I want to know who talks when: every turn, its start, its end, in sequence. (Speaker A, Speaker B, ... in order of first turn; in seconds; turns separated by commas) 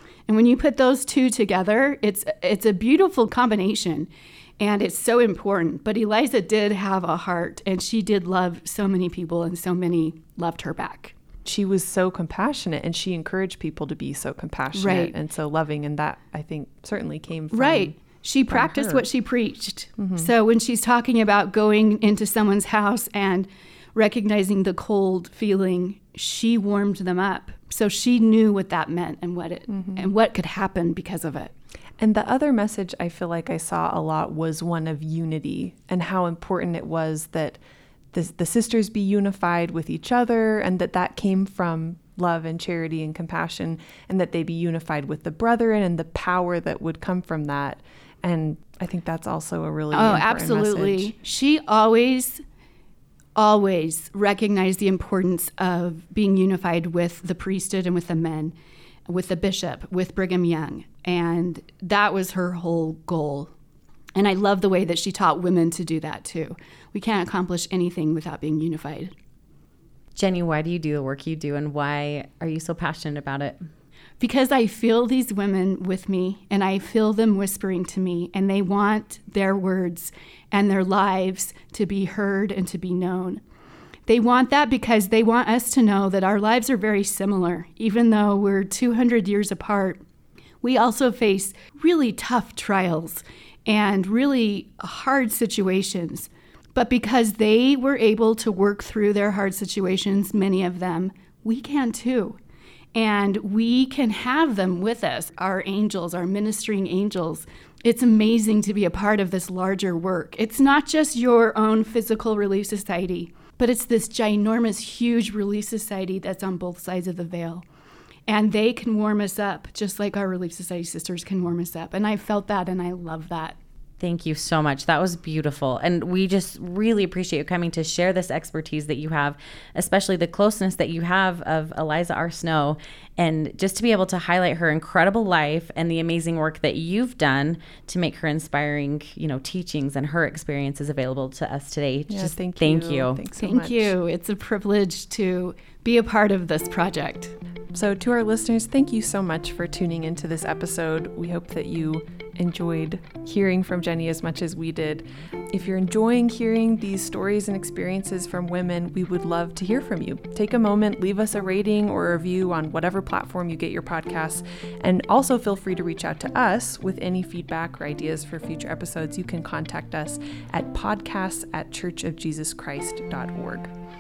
Speaker A: 0.3-11.1, Speaker B: 11.4-17.9, Speaker A: 14.7-15.1, Speaker A: 17.5-31.5, Speaker B: 18.5-19.1, Speaker B: 20.0-20.3, Speaker B: 29.8-30.1, Speaker B: 32.0-37.6, Speaker B: 38.1-51.1, Speaker A: 49.9-52.4, Speaker A: 53.4-58.5, Speaker A: 59.1-63.5, Speaker A: 64.2-69.1, Speaker C: 70.2-73.6, Speaker A: 74.2-83.4, Speaker A: 84.1-90.0, Speaker A: 90.6-102.4, Speaker A: 102.9-117.6, Speaker A: 118.3-123.6, Speaker C: 124.0-143.2, Speaker B: 142.1-143.9, Speaker A: 143.3-147.3, Speaker B: 147.7-173.7